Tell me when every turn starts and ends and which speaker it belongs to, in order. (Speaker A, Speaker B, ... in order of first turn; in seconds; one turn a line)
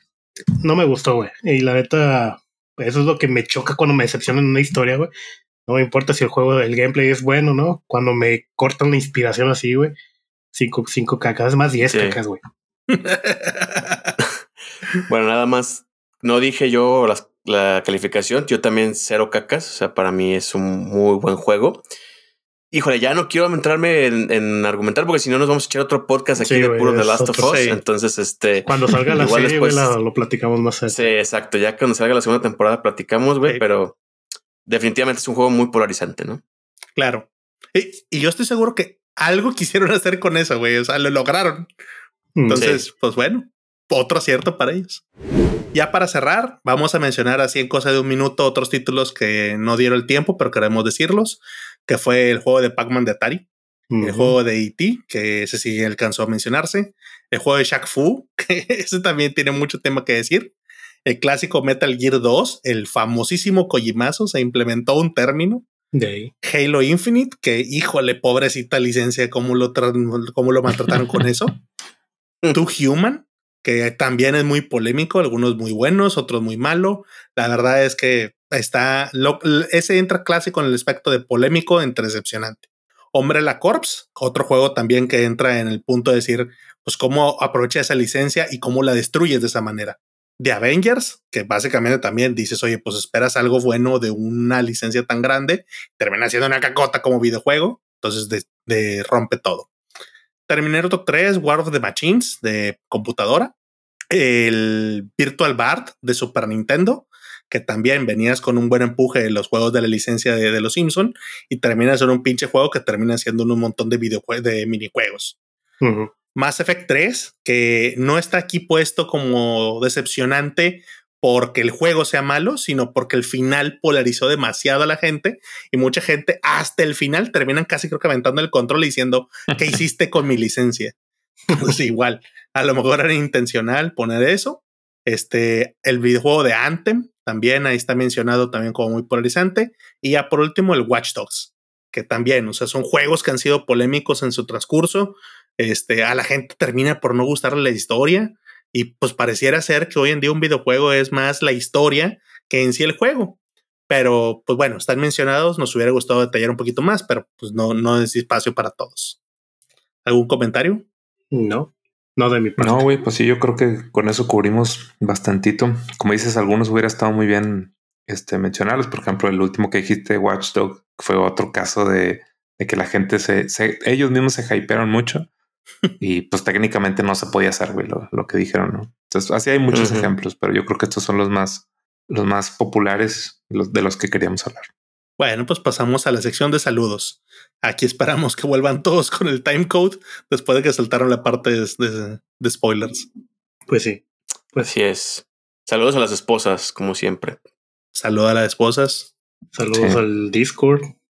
Speaker A: 0.6-5.1
Speaker A: 5.7-9.9
Speaker A: 10.5-12.4
Speaker B: 11.8-12.2
Speaker C: 12.9-14.1
Speaker B: 15.0-21.8
Speaker B: 22.7-29.9
Speaker A: 26.4-27.6
Speaker C: 27.4-27.8
Speaker A: 28.6-31.1
Speaker B: 30.9-34.0
Speaker B: 34.6-36.4
Speaker C: 37.0-41.7
Speaker A: 42.4-42.6
Speaker C: 42.5-45.0
Speaker B: 42.5-42.8
Speaker C: 45.7-53.5
Speaker A: 53.9-54.4
Speaker C: 54.0-60.5
Speaker C: 61.0-65.7
Speaker A: 65.9-66.3
Speaker C: 66.4-71.5
Speaker C: 72.5-99.7
Speaker C: 100.5-103.5
Speaker C: 104.1-115.3
Speaker A: 115.8-116.1
Speaker C: 116.3-130.9
Speaker C: 131.5-153.4
Speaker C: 153.9-159.2
Speaker C: 160.0-160.8
Speaker A: 161.3-162.9
Speaker D: 162.6-175.3
Speaker D: 176.0-184.7
Speaker B: 179.7-180.1
Speaker C: 185.2-193.1
Speaker A: 193.7-194.0
Speaker B: 194.6-197.4
Speaker C: 197.9-199.1
Speaker A: 199.5-200.9
Speaker D: 199.7-200.0